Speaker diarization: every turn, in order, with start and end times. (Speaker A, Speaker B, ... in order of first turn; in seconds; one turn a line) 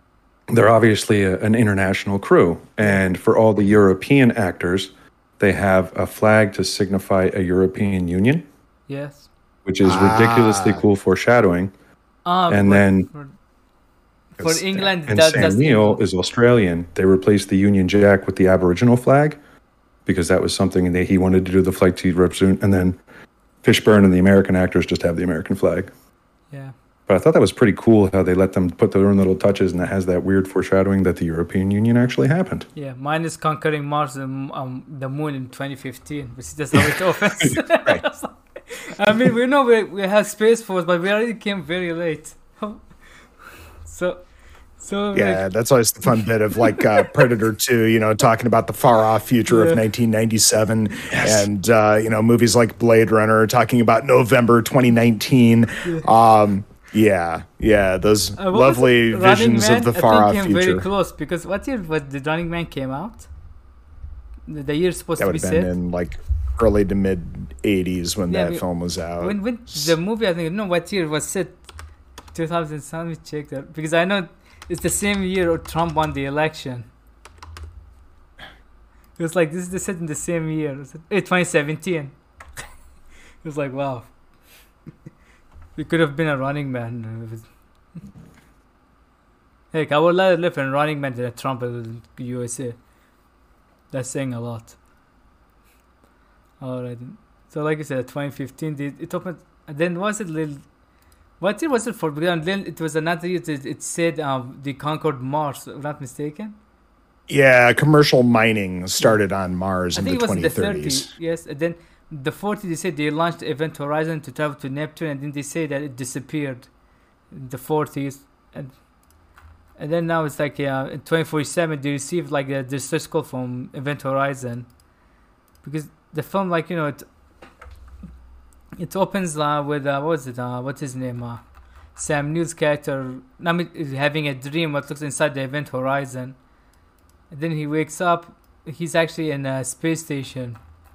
Speaker A: 0.5-8.4
Speaker B: 8.9-9.3
Speaker A: 9.7-11.7
Speaker C: 9.8-10.8
Speaker B: 12.3-13.3
Speaker A: 12.5-13.1
Speaker B: 14.4-16.0
Speaker C: 14.4-14.9
Speaker A: 15.1-19.4
Speaker A: 20.1-23.0
Speaker A: 23.6-25.9
Speaker A: 27.1-32.7
Speaker B: 32.8-42.9
Speaker B: 43.8-44.2
Speaker B: 44.8-45.4
Speaker C: 45.1-60.9
Speaker B: 46.6-47.2
Speaker B: 49.5-49.8
Speaker A: 51.1-51.5
Speaker B: 58.4-63.3
Speaker B: 64.5-65.7
Speaker C: 65.2-69.9
Speaker B: 68.3-68.6
Speaker B: 69.2-71.6
Speaker B: 72.3-76.9
Speaker B: 79.2-82.1
Speaker B: 83.4-84.1
Speaker B: 85.8-87.5
Speaker B: 89.7-92.8
Speaker B: 93.9-94.8
Speaker B: 96.6-100.6
Speaker B: 101.4-106.6
Speaker C: 107.3-111.1
Speaker B: 109.9-116.7
Speaker B: 117.3-118.8
Speaker B: 119.8-124.7
Speaker B: 125.6-127.1
Speaker B: 128.8-131.4
Speaker B: 131.9-136.4
Speaker B: 137.3-140.6